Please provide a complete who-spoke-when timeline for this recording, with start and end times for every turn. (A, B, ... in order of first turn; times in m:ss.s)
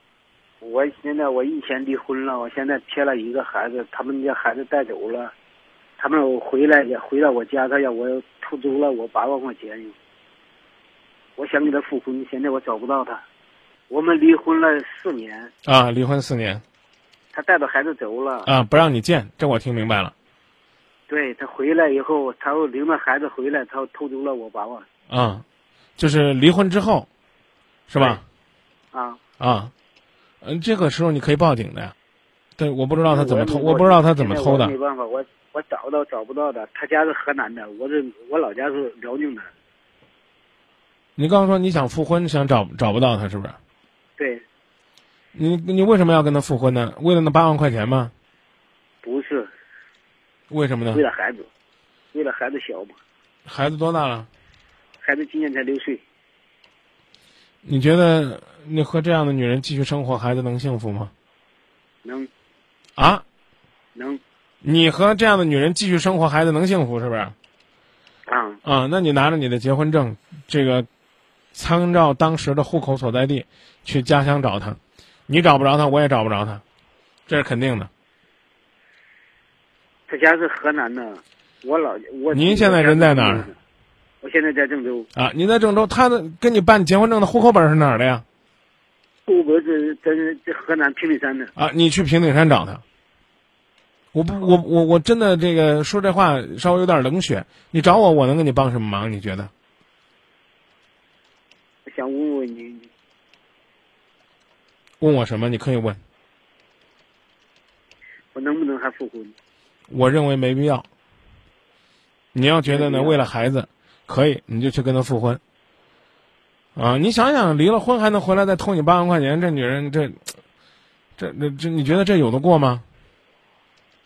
0:00.6-0:05.3 A
0:06.0-0:10.0 A
0:11.4-0:13.2 A
0:13.9-0:15.5 A
0:15.6-0:16.6 B
0:17.3-0:18.5 A
0:18.5-0:20.1 B
0:21.1-0:24.9 A
0:25.1-0:25.4 B
0:26.0-0:27.1 B
0:27.9-0:28.2 B
0:28.0-0:28.2 A
0:28.9-0:29.2 A
0:29.4-0:29.7 B
0:30.4-0:31.9 B
0:32.6-0:34.8 B
0:33.1-0:39.5 A
0:41.2-0:43.6 B
0:44.2-0:44.4 A
0:45.3-0:48.1 B
0:49.0-0:49.5 A
0:50.5-0:51.0 B
0:50.9-0:51.5 A
0:52.1-0:53.0 A
0:53.5-0:54.3 B
0:55.0-0:56.0 A
0:57.6-1:01.1 B
1:02.0-1:02.3 A
1:03.0-1:03.2 B
1:04.0-1:04.2 A
1:04.6-1:07.4 B
1:08.3-1:08.6 A
1:08.6-1:10.9 B
1:11.5-1:16.6 B
1:17.3-1:17.9 B
1:20.1-1:23.6 A
1:22.3-1:23.5 B
1:24.2-1:25.1 A
1:25.2-1:28.2 B
1:29.3-1:31.5 A
1:31.6-1:32.8 B
1:34.1-1:39.5 B
1:41.9-1:42.9 A
1:45.0-1:46.0 B
1:48.3-1:49.3 A
1:49.9-1:50.9 B
1:52.3-1:55.4 B
1:52.6-1:53.2 A
1:56.8-2:00.2 B
2:01.2-2:02.8 B